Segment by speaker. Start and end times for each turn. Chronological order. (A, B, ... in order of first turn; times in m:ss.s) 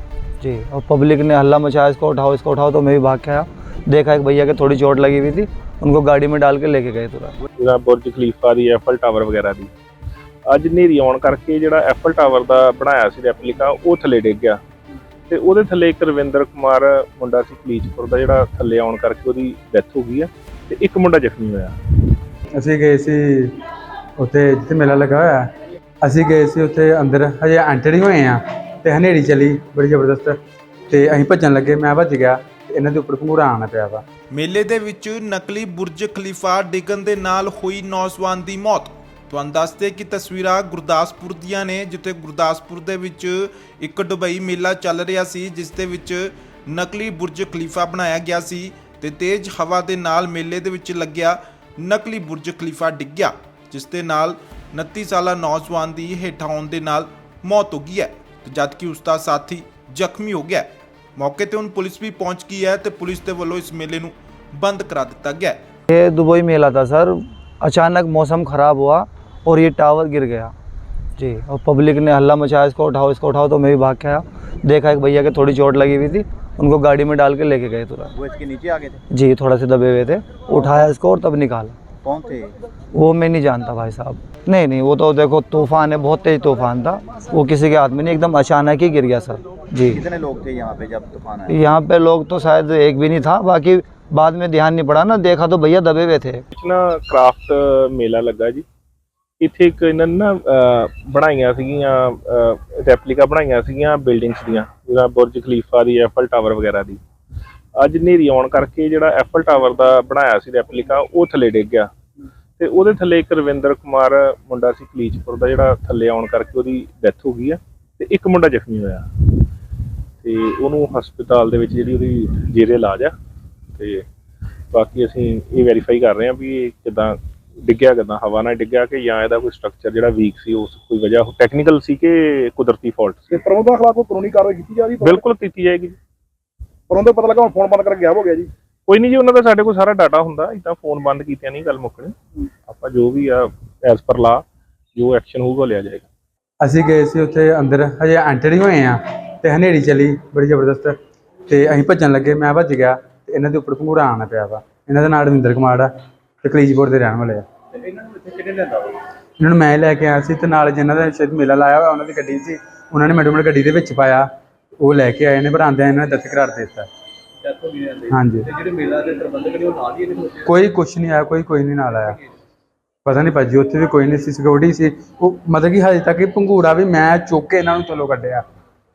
0:00.4-0:07.3 A
0:07.6-0:09.7 B
0:10.5-0:14.6 B
0:15.3-0:21.8 B
0:22.6-0:23.6 C
0:24.2-0:25.5 C
0:26.0-0:30.4 C
0:30.9-0:34.0 C
0:34.3-1:05.6 D
1:05.9-1:10.5 A
1:11.2-1:18.1 A
1:18.1-1:19.0 E
1:19.1-1:21.8 A
1:22.0-1:22.6 E
1:23.0-1:30.0 A
1:29.9-1:31.6 E
1:31.5-1:36.4 A
1:36.5-1:38.6 B
1:39.4-1:47.0 B
1:47.8-1:51.9 B
1:52.6-1:59.4 B
2:00.2-2:03.1 B
2:03.8-2:04.0 B
2:04.7-2:13.4 B
2:13.3-2:15.2 F
2:15.0-2:16.0 B
2:16.9-2:18.5 F
2:18.9-2:22.1 B
2:22.7-2:24.4 B
2:24.9-2:26.1 B
2:26.6-2:31.0 C
2:31.5-2:35.9 C
2:36.4-2:37.4 C
2:38.1-2:38.8 C
2:39.4-2:44.2 C
2:44.8-2:46.9 C
2:48.1-2:48.6 C
2:50.2-2:52.2 C
2:53.0-2:58.4 C